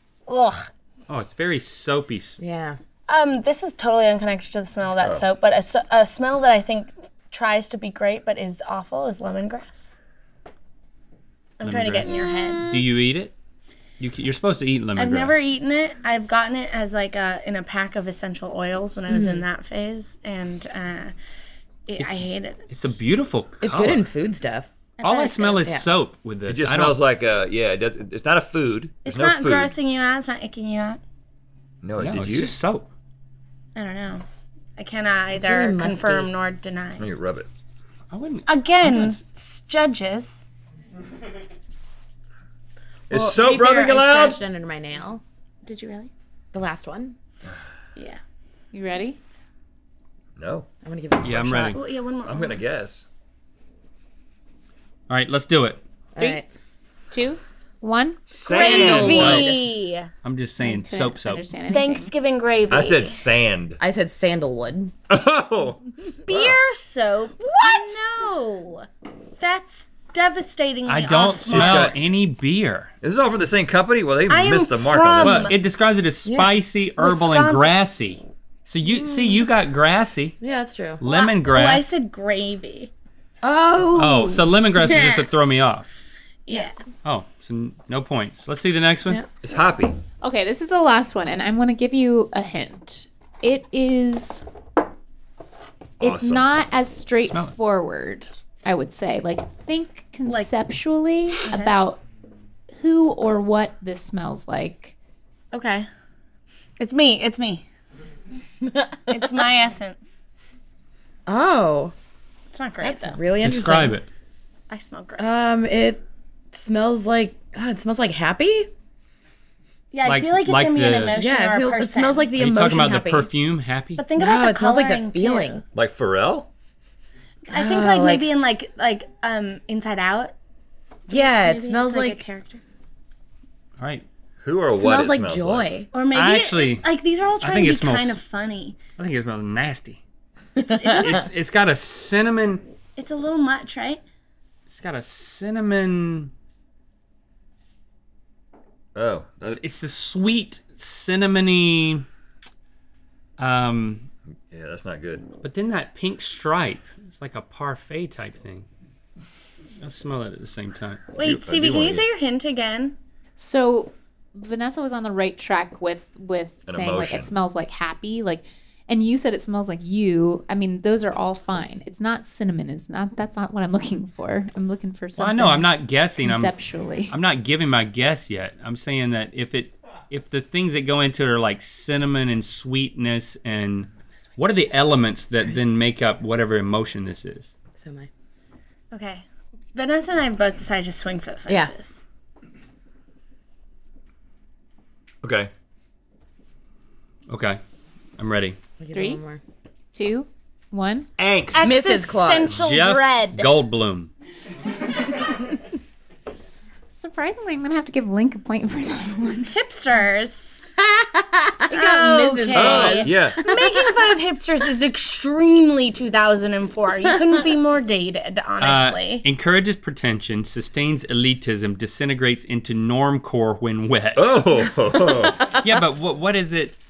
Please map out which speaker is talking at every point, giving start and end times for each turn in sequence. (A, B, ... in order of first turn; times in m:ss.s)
0:00.3-0:00.7 A
0:01.1-0:02.4 B
0:02.4-0:02.8 C
0:03.1-0:09.9 A
0:05.0-0:05.3 D
0:11.6-0:12.7 A
0:11.6-0:12.1 B
0:12.7-0:13.3 B
0:14.0-0:15.4 B
0:15.0-0:21.2 A
0:19.1-0:19.4 C
0:21.9-0:22.6 A
0:22.0-0:24.1 B
0:23.6-0:24.7 C
0:25.0-0:25.8 A
0:25.0-0:27.0 B
0:26.5-0:29.7 D
0:29.0-0:31.0 A
0:31.8-0:32.6 D
0:32.0-0:32.9 B
0:33.8-0:34.2 A
0:34.8-0:37.0 A
0:35.4-0:36.3 C
0:37.0-0:37.5 D
0:38.1-0:39.2 B
0:38.5-0:40.5 A
0:43.1-0:44.4 D
0:43.1-0:45.2 C
0:45.6-0:46.1 A
0:46.5-0:47.2 C
0:48.7-0:49.2 E
0:50.4-0:50.7 D
0:50.8-0:51.8 C
0:51.2-0:51.8 B
0:51.7-0:52.6 A
0:52.2-0:53.1 D
0:55.1-0:55.8 B
0:56.2-0:56.5 C
0:56.2-0:56.4 E
0:57.1-0:58.8 E
0:58.3-0:59.5 D
0:58.5-0:59.6 C
0:58.5-1:00.1 A
0:58.8-0:59.5 B
1:00.2-1:01.5 B
1:00.6-1:02.1 E
1:01.7-1:03.2 A
1:02.7-1:03.8 D
1:03.8-1:04.9 C
1:05.1-1:06.6 D
1:06.3-1:08.9 A
1:09.4-1:12.1 A
1:10.9-1:12.9 B
1:11.4-1:12.1 D
1:13.0-1:15.5 D
1:14.3-1:15.6 A
1:15.2-1:20.4 B
1:16.2-1:16.5 C
1:17.0-1:17.7 A
1:18.8-1:19.5 C
1:20.4-1:21.0 C
1:21.0-1:22.0 B
1:21.0-1:22.9 A
1:23.4-1:24.5 C
1:24.0-1:25.9 B
1:24.8-1:25.3 A
1:26.5-1:26.8 A
1:27.0-1:29.2 B
1:29.4-1:30.0 D
1:30.2-1:34.5 E
1:36.0-1:42.0 E
1:36.0-1:36.5 D
1:37.3-1:37.5 B
1:40.3-1:40.6 A
1:41.5-1:41.8 A
1:42.8-1:44.9 E
1:45.5-1:45.9 A
1:46.8-1:47.7 A
1:48.6-1:49.3 C
1:49.1-1:50.1 A
1:51.3-1:51.9 C
1:52.5-1:53.2 A
1:52.8-1:54.0 C
1:53.4-1:54.1 B
1:54.7-1:55.2 A
1:55.2-1:58.7 C
1:59.9-2:02.3 A
2:00.0-2:01.2 B
2:01.1-2:03.3 C
2:02.4-2:04.1 B
2:04.0-2:05.6 A
2:04.2-2:05.6 C
2:05.7-2:06.5 D
2:07.5-2:10.4 A
2:07.5-2:08.3 C
2:11.1-2:12.6 A
2:11.1-2:12.2 C
2:13.8-2:14.1 B
2:14.4-2:15.8 D
2:14.8-2:15.9 C
2:15.9-2:18.8 A
2:16.1-2:16.9 B
2:17.4-2:18.2 B
2:19.0-2:20.0 B
2:20.7-2:21.3 A
2:20.8-2:21.2 C
2:21.0-2:22.6 B
2:23.0-2:24.0 A
2:24.7-2:26.3 B
2:29.0-2:29.6 D
2:29.5-2:32.0 B
2:33.4-2:34.1 B
2:34.5-2:35.3 D
2:35.4-2:38.7 B
2:39.8-2:41.1 B
2:41.2-2:43.0 A
2:41.2-2:42.1 D
2:43.4-2:57.2 E
2:46.7-2:47.3 D
2:55.2-2:56.5 B
2:57.1-3:07.5 B
3:07.8-3:08.1 C
3:08.9-3:12.0 A
3:11.5-3:11.7 C
3:15.2-3:15.5 D
3:17.3-3:17.6 B
3:18.2-3:18.6 B
3:18.8-3:19.4 C
3:18.9-3:19.2 E
3:19.9-3:21.1 E
3:21.2-3:21.8 D
3:21.5-3:23.5 A
3:21.6-3:22.7 C
3:22.6-3:24.1 B
3:26.9-3:29.5 E
3:29.4-3:30.7 A
3:30.9-3:33.7 C
3:31.7-3:39.3 A
3:32.5-3:33.4 D
3:38.6-3:44.4 B
3:44.2-3:45.6 D
3:44.9-3:45.5 C
3:45.6-3:46.8 B